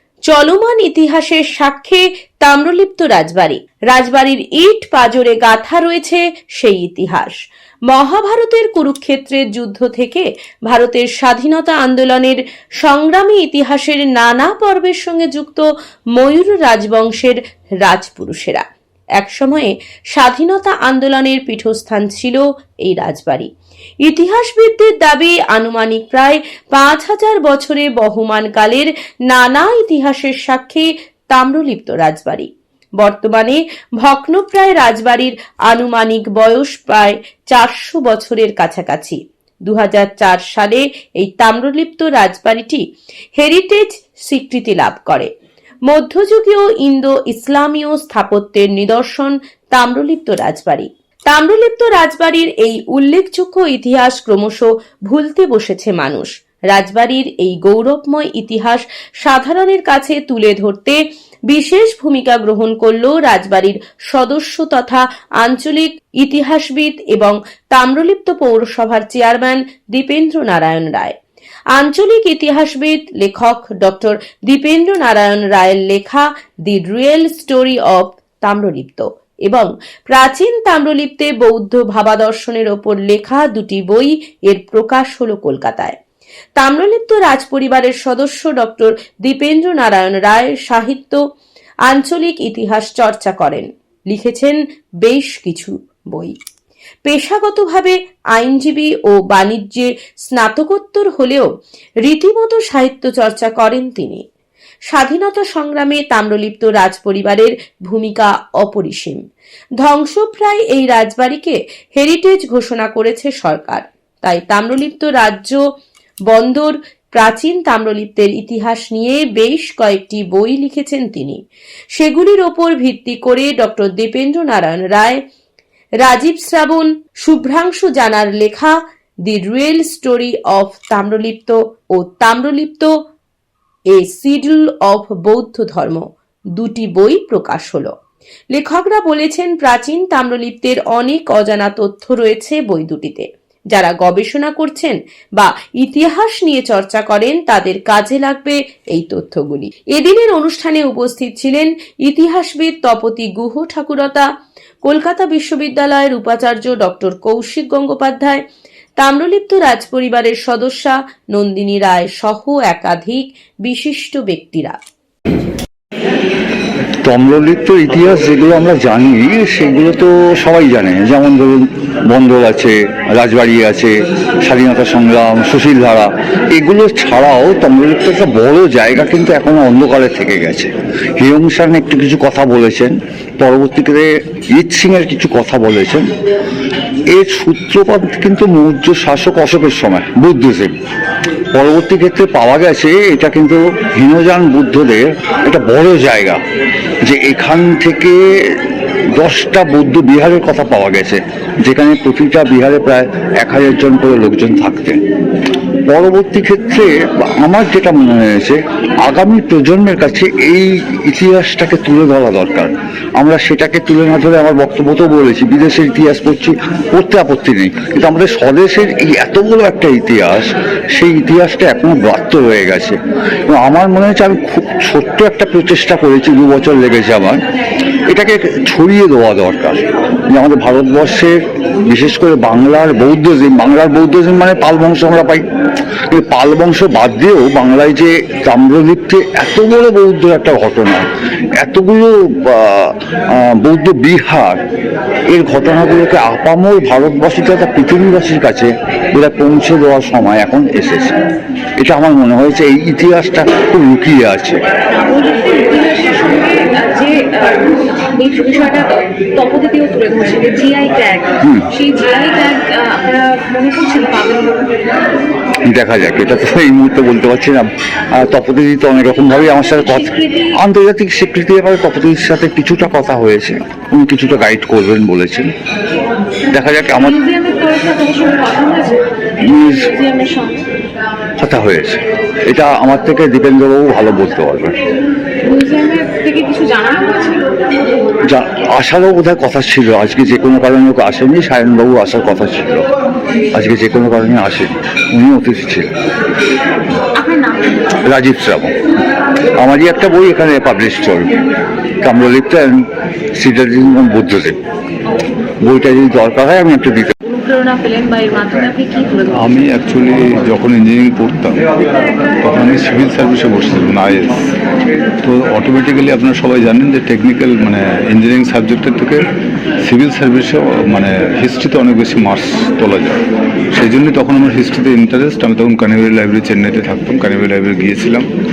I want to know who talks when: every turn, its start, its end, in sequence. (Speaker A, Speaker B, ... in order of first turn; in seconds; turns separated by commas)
Speaker A: 0.3-7.4, Speaker A: 7.9-18.6, Speaker A: 19.2-23.5, Speaker A: 24.0-42.9, Speaker A: 43.4-45.3, Speaker A: 45.9-71.2, Speaker A: 71.7-86.0, Speaker A: 86.6-91.2, Speaker A: 91.9-96.3, Speaker A: 97.1-101.5, Speaker A: 102.0-104.2, Speaker A: 104.9-109.2, Speaker A: 109.8-115.6, Speaker A: 116.3-121.4, Speaker A: 122.0-125.2, Speaker A: 126.0-132.9, Speaker A: 133.9-136.1, Speaker A: 136.6-137.9, Speaker A: 138.5-154.3, Speaker A: 154.8-158.4, Speaker A: 159.0-164.8, Speaker B: 167.1-173.9, Speaker B: 174.4-186.1, Speaker B: 187.1-190.7, Speaker B: 191.5-196.4, Speaker B: 197.0-205.0, Speaker B: 205.9-227.4, Speaker B: 228.1-231.3, Speaker B: 231.9-235.4, Speaker B: 236.1-241.1, Speaker B: 241.6-244.6, Speaker B: 245.3-251.1, Speaker B: 251.8-254.6, Speaker C: 254.9-264.7, Speaker B: 265.7-275.5, Speaker C: 269.6-270.5, Speaker B: 276.5-277.2, Speaker C: 277.0-279.1, Speaker B: 279.5-279.9, Speaker C: 279.6-280.6, Speaker B: 281.4-284.8, Speaker C: 285.4-287.5, Speaker B: 288.3-292.9, Speaker B: 293.6-295.9, Speaker C: 297.2-297.7, Speaker B: 298.0-298.8, Speaker B: 299.6-301.3, Speaker B: 302.0-304.6, Speaker B: 305.6-307.1, Speaker C: 307.2-309.5, Speaker D: 309.4-311.6, Speaker D: 312.4-314.4, Speaker D: 315.2-319.2, Speaker D: 319.9-328.3